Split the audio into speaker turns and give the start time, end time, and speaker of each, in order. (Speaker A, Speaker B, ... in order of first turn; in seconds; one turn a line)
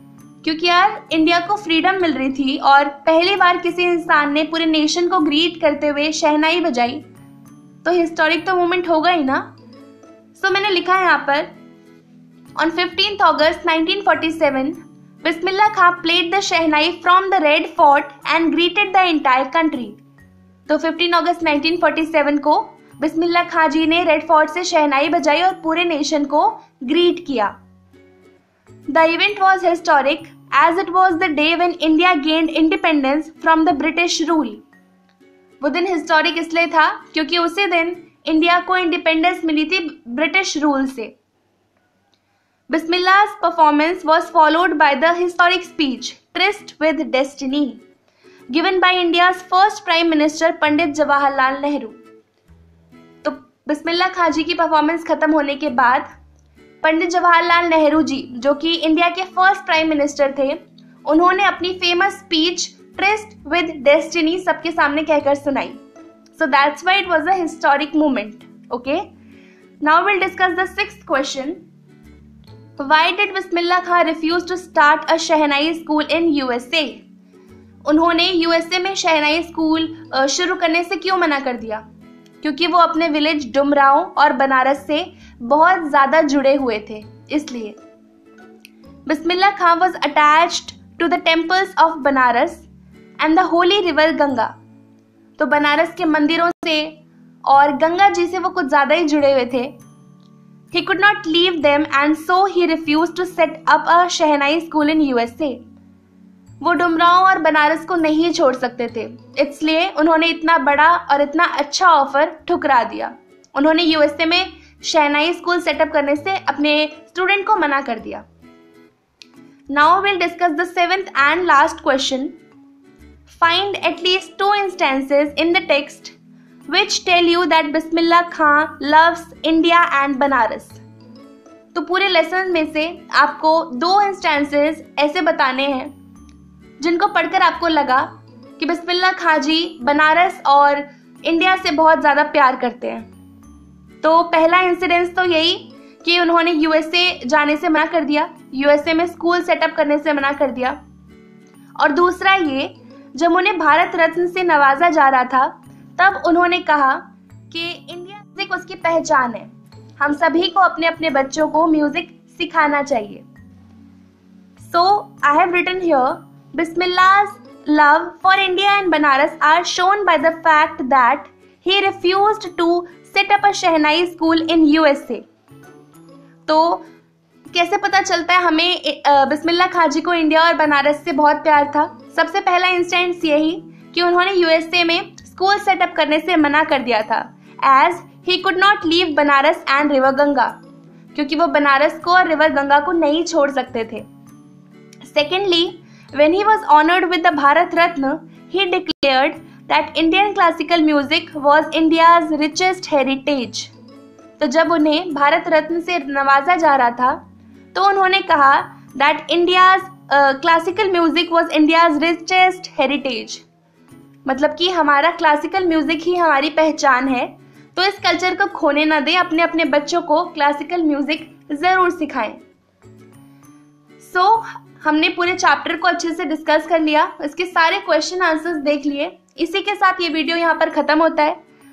Speaker A: 0.4-7.0
Speaker A: 7.8-9.5
Speaker A: 10.3-11.5
Speaker A: 12.6-20.0
Speaker A: 20.7-27.5
Speaker A: 28.9-34.6
Speaker A: 35.6-41.1
Speaker A: 42.7-47.8
Speaker A: 48.5-52.0
Speaker A: 53.2-56.1
Speaker A: 56.8-65.8
Speaker A: 66.3-69.1
Speaker A: 69.8-71.6
Speaker A: 72.8-77.0
Speaker A: 77.8-81.8
Speaker A: 82.4-87.8
Speaker A: 89.0-92.7
Speaker A: 93.2-94.5
Speaker A: 95.4-99.8
Speaker A: 100.7-105.6
Speaker A: 106.6-118.2
Speaker A: 119.7-122.3
Speaker A: 123.3-126.1
Speaker A: 126.7-130.8
Speaker A: 131.7-135.9
Speaker A: 136.8-143.1
Speaker A: 144.0-150.8
Speaker A: 151.8-163.2
Speaker A: 164.6-175.2
Speaker A: 176.4-176.8
Speaker A: 177.5-190.6
Speaker A: 191.1-194.0
Speaker A: 195.0-203.7
Speaker A: 204.4-207.2
Speaker A: 207.7-213.4
Speaker A: 214.2-222.4
Speaker A: 224.0-231.4